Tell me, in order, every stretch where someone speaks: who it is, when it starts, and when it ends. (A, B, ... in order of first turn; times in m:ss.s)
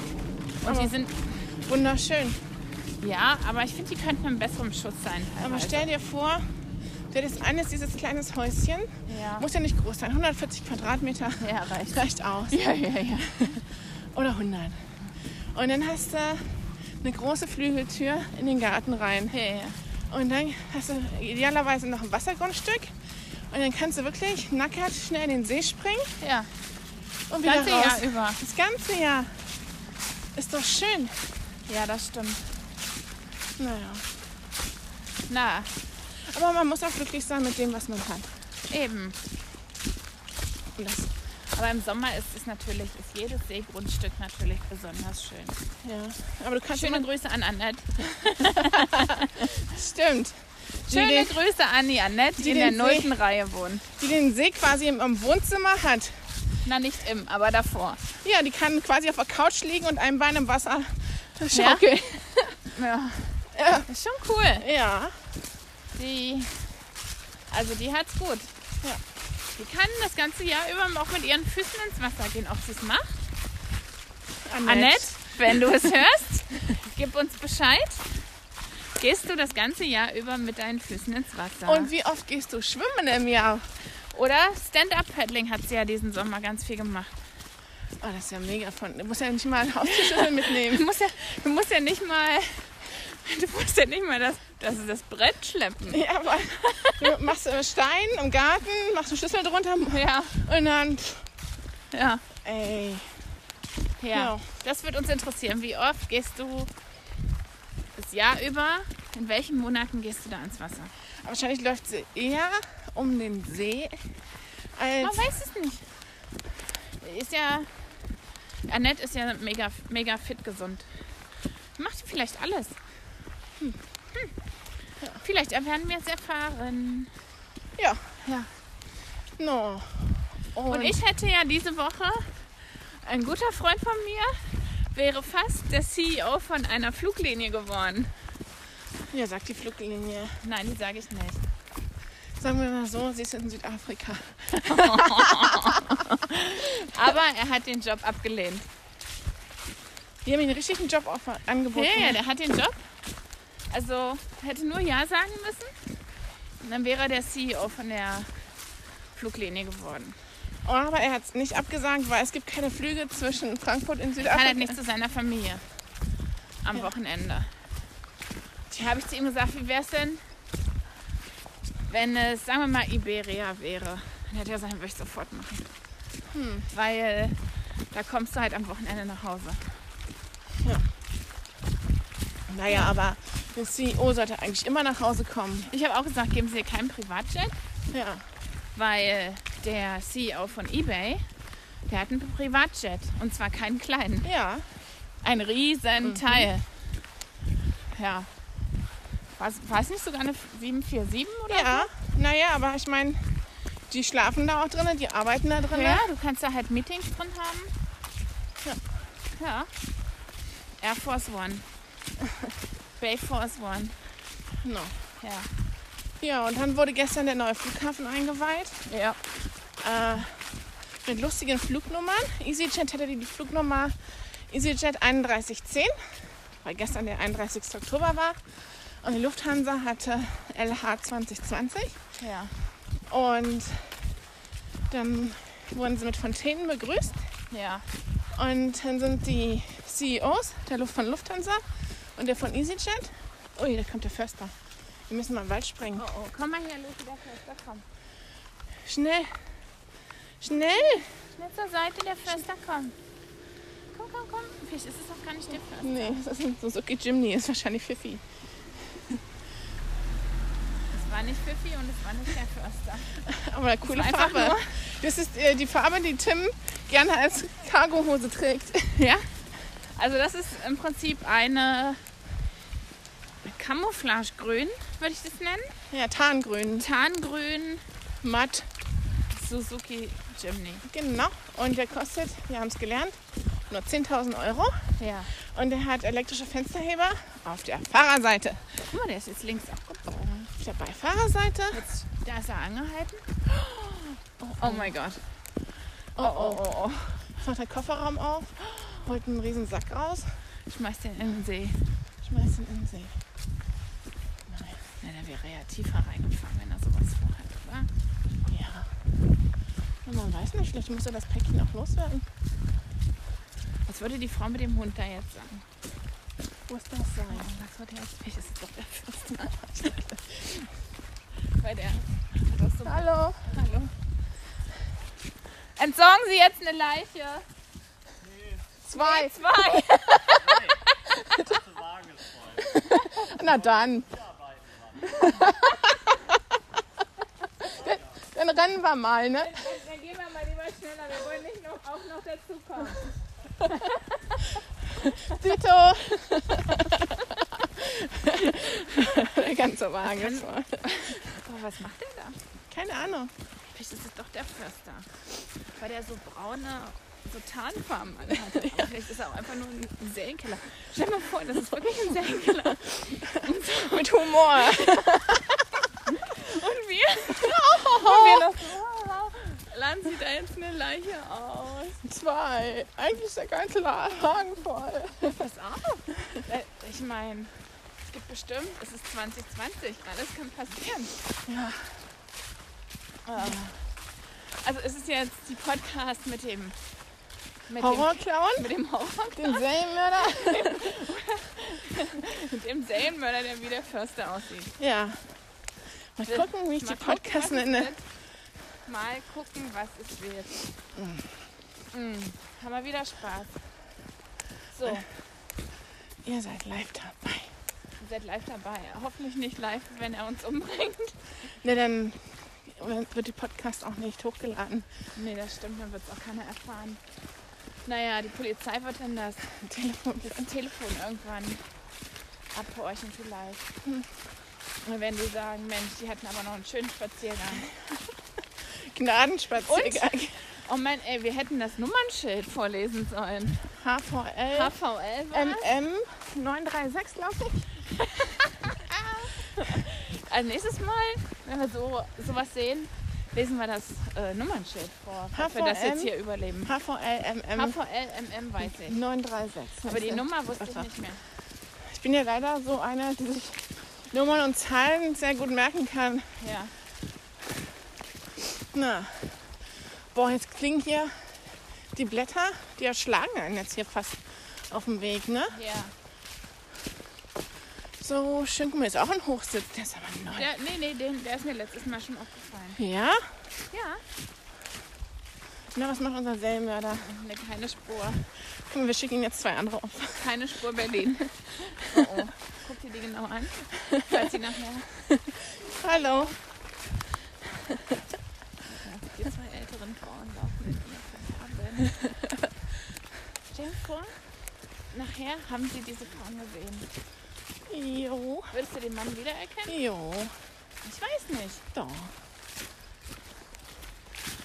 0:00.6-0:01.4 A
0:00.6-0:00.9 B
0:01.5-0:02.4 B
0:03.0-0:05.9 A
0:05.4-0:06.6 B
0:07.1-0:12.6 B
0:09.1-0:09.5 A
0:11.4-0:13.6 A
0:13.2-0:19.4 B
0:19.3-0:19.8 A
0:20.1-0:23.0 B
0:23.5-0:26.2 B
0:26.2-0:26.5 A
0:27.3-0:29.4 B
0:27.4-0:28.4 A
0:30.4-0:31.2 B
0:31.7-0:32.4 A
0:33.6-0:34.1 B
0:35.3-0:35.7 A
0:36.2-0:38.3 B
0:38.7-0:39.2 A
0:40.8-0:41.1 B
0:41.5-0:45.6 A
0:45.8-0:47.1 B
0:46.7-0:49.5 A
0:48.3-0:51.3 B
0:50.9-0:53.9 A
0:52.4-0:53.1 B
0:54.0-0:56.2 B
0:56.6-0:58.0 A
0:58.2-1:02.5 B
1:01.5-1:04.7 A
1:03.5-1:03.9 B
1:04.6-1:05.3 B
1:05.9-1:06.7 A
1:07.5-1:08.5 A
1:09.6-1:13.3 A
1:14.4-1:15.6 B
1:14.6-1:18.0 A
1:19.0-1:21.9 A
1:21.6-1:23.7 B
1:24.1-1:27.2 A
1:28.0-1:30.9 B
1:29.9-1:37.2 A
1:35.9-1:41.2 B
1:39.9-1:40.4 A
1:41.9-1:42.2 A
1:42.4-1:43.1 B
1:44.0-1:46.7 A
1:44.1-1:44.4 B
1:48.0-1:50.9 A
1:51.2-1:54.0 B
1:54.8-1:55.3 B
1:55.0-1:55.8 A
1:57.0-1:57.7 A
1:58.7-2:00.9 A
2:01.8-2:02.8 A
2:05.2-2:07.1 A
2:07.8-2:08.1 B
2:08.2-2:08.5 A
2:09.4-2:11.0 B
2:10.7-2:18.1 A
2:19.1-2:20.4 B
2:20.4-2:21.4 A
2:22.4-2:26.0 B
2:24.5-2:28.7 A
2:30.2-2:32.2 B
2:31.7-2:32.9 A
2:33.7-2:35.7 A
2:36.6-2:38.3 A
2:39.2-2:40.2 A
2:40.6-2:44.8 B
2:44.2-2:45.6 A
2:46.6-2:47.5 A
2:48.7-2:50.2 A
2:51.9-2:55.7 A
2:56.3-2:56.7 B
2:56.7-2:57.4 A
2:57.9-2:59.7 A
3:02.5-3:05.7 B
3:05.7-3:07.6 A
3:07.9-3:08.3 B
3:08.8-3:11.2 A
3:11.9-3:14.3 A
3:14.2-3:14.7 B
3:15.2-3:16.6 A
3:16.0-3:16.5 B
3:17.9-3:18.3 A
3:19.4-3:21.9 A
3:21.5-3:23.3 B
3:23.9-3:26.1 B
3:25.7-3:27.7 A
3:29.3-3:29.7 A
3:30.8-3:31.7 A
3:32.3-3:32.5 B
3:33.0-3:34.0 A
3:34.6-3:35.0 B
3:35.2-3:35.5 A
3:36.2-3:38.8 B
3:38.9-3:39.2 A
3:39.8-3:40.4 B
3:41.0-3:48.4 B
3:49.0-3:52.0 B
3:52.2-3:52.5 A
3:53.1-3:54.0 B
3:54.9-3:57.3 B
3:57.5-3:57.8 A
3:58.3-4:04.5 B
4:05.1-4:06.0 B
4:06.0-4:07.9 A
4:08.8-4:09.4 B
4:10.4-4:11.1 B
4:10.5-4:13.0 A
4:14.0-4:16.2 A
4:15.8-4:18.2 B
4:20.9-4:23.2 A
4:23.2-4:29.0 B
4:23.8-4:24.7 A
4:29.0-4:29.2 A
4:29.9-4:32.0 A
4:33.4-4:35.8 A
4:35.9-4:36.9 B
4:36.8-4:37.9 A
4:38.2-4:38.7 B
4:39.3-4:40.9 A
4:40.8-4:43.2 B
4:43.7-4:48.7 B
4:45.0-4:45.3 A
4:48.8-4:50.5 A
4:50.5-4:51.8 B
4:51.7-4:55.2 A
4:54.4-4:55.0 B
4:56.2-4:56.6 B
4:56.2-4:57.2 A
4:57.3-5:00.4 B
5:00.7-5:01.8 A
5:02.2-5:03.1 B
5:04.5-5:04.8 B
5:05.0-5:07.9 A
5:08.5-5:08.9 B
5:10.0-5:12.3 B
5:13.9-5:15.6 A
5:16.7-5:17.5 B
5:17.3-5:20.7 A
5:21.6-5:23.9 A
5:22.8-5:23.5 B
5:25.8-5:27.4 A
5:28.8-5:30.7 B
5:28.9-5:31.6 A
5:32.5-5:34.2 B
5:35.0-5:36.4 B
5:37.6-5:39.6 B
5:39.4-5:45.4 A
5:45.0-5:51.2 B
5:50.0-5:52.4 A
5:52.7-5:53.3 B
5:53.7-5:55.1 A
5:55.7-6:05.4 A
6:03.3-6:05.9 B
6:06.1-6:12.0 A
6:07.3-6:08.5 B
6:12.0-6:15.4 B
6:15.2-6:17.5 A
6:18.1-6:21.1 A
6:21.4-6:21.9 B
6:23.3-6:23.7 A
6:23.4-6:23.7 B
6:24.5-6:26.8 A
6:27.7-6:34.7 A
6:27.8-6:28.7 B
6:29.3-6:31.0 B
6:34.8-6:35.3 B
6:36.2-6:37.9 B
6:36.3-6:38.0 A
6:38.9-6:40.7 A
6:41.0-6:41.3 B
6:41.9-6:43.6 A
6:44.7-6:45.1 A
6:46.2-6:47.5 B
6:48.0-6:51.2 A
6:51.6-6:54.9 B
6:55.1-6:57.0 A
6:57.8-6:59.5 A
6:59.5-7:00.5 B
7:00.1-7:01.6 A
7:02.5-7:03.7 A
7:04.8-7:07.7 A
7:08.7-7:10.4 B
7:09.6-7:13.6 A
7:13.7-7:14.7 B
7:14.5-7:15.7 A
7:15.3-7:17.0 B
7:16.5-7:26.7 A
7:25.3-7:27.8 B
7:27.6-7:29.0 A
7:28.7-7:30.9 B
7:29.8-7:31.2 A
7:31.8-7:36.3 B
7:36.4-7:36.7 A
7:38.4-7:45.6 B
7:45.5-7:45.9 A
7:48.0-7:50.5 B
7:50.4-7:52.8 A
7:52.8-7:53.3 B
7:53.7-7:54.0 A
7:55.7-7:57.0 B
7:56.9-7:58.2 A
7:58.6-8:00.2 B
8:00.2-8:04.9 A
8:03.8-8:04.2 B
8:05.1-8:06.4 B
8:05.9-8:06.3 A
8:07.5-8:08.0 B
8:08.7-8:12.0 A
8:13.5-8:14.1 A
8:14.9-8:16.9 A
8:17.7-8:18.5 B
8:18.5-8:19.8 A
8:19.7-8:20.4 B
8:20.8-8:21.6 A
8:21.7-8:22.1 B